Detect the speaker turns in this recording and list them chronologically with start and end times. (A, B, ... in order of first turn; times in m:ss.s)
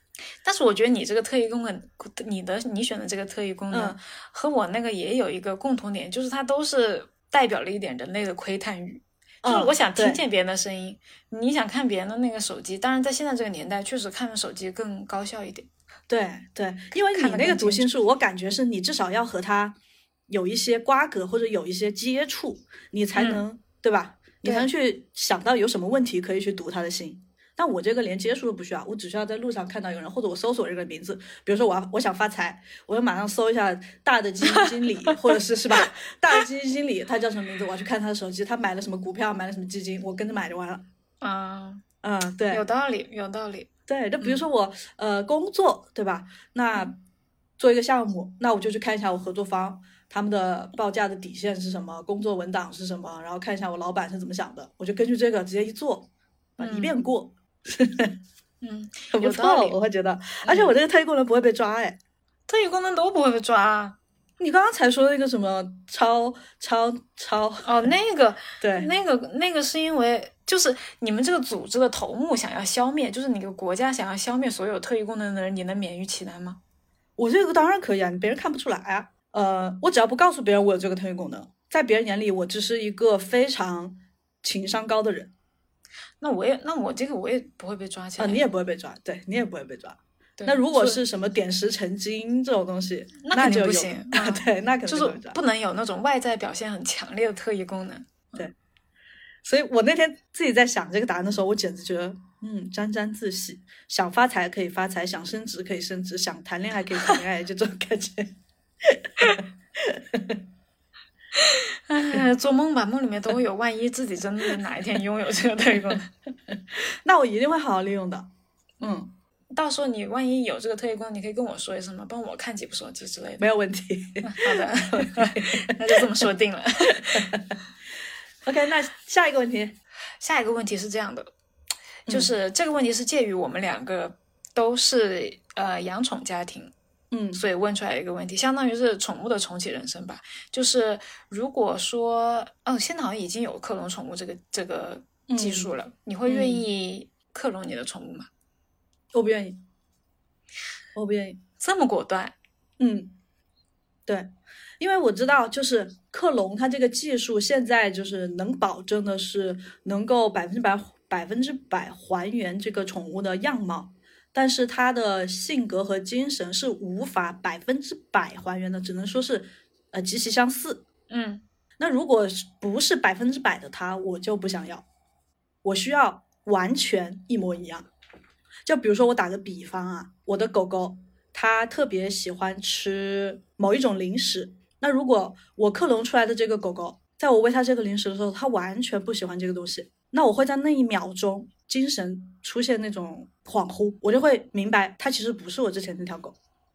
0:00.4-0:15.7 A
0:03.7-0:04.0 B
0:09.4-0:10.2 B
0:16.1-0:19.8 B
0:17.0-0:17.9 A
0:20.3-0:40.8 B
0:23.2-0:23.4 A
0:34.5-0:35.2 A
0:41.2-0:41.8 A
0:42.0-0:42.6 B
0:42.5-0:43.7 A
0:43.9-0:47.0 B
0:47.6-0:58.2 B
0:56.6-0:57.0 A
0:58.6-0:59.8 A
0:59.1-1:02.0 B
1:00.4-1:00.8 A
1:02.5-1:04.0 A
1:04.4-1:07.7 B
1:07.6-1:16.6 A
1:08.6-1:08.9 B
1:17.2-1:25.3 B
1:26.2-1:28.4 A
1:28.2-1:35.4 B
1:30.4-1:31.0 A
1:33.2-1:38.4 A
1:39.4-1:50.4 B
1:51.3-1:56.1 A
1:56.5-1:59.1 B
1:59.5-2:03.5 A
2:03.4-2:06.1 B
2:04.2-2:07.3 A
2:07.1-2:07.6 B
2:08.4-2:09.8 B
2:10.2-2:11.3 A
2:12.1-2:12.3 B
2:12.1-2:16.7 A
2:17.1-2:17.4 B
2:17.4-2:28.3 A
2:25.3-2:25.7 B
2:26.3-2:26.6 B
2:29.1-2:29.6 B
2:31.0-2:31.4 B
2:31.6-2:32.4 A
2:32.8-2:33.2 B
2:34.1-2:50.9 B
2:51.1-2:51.4 A
2:51.8-2:54.8 B
2:55.6-2:57.9 B
2:58.6-3:16.4 B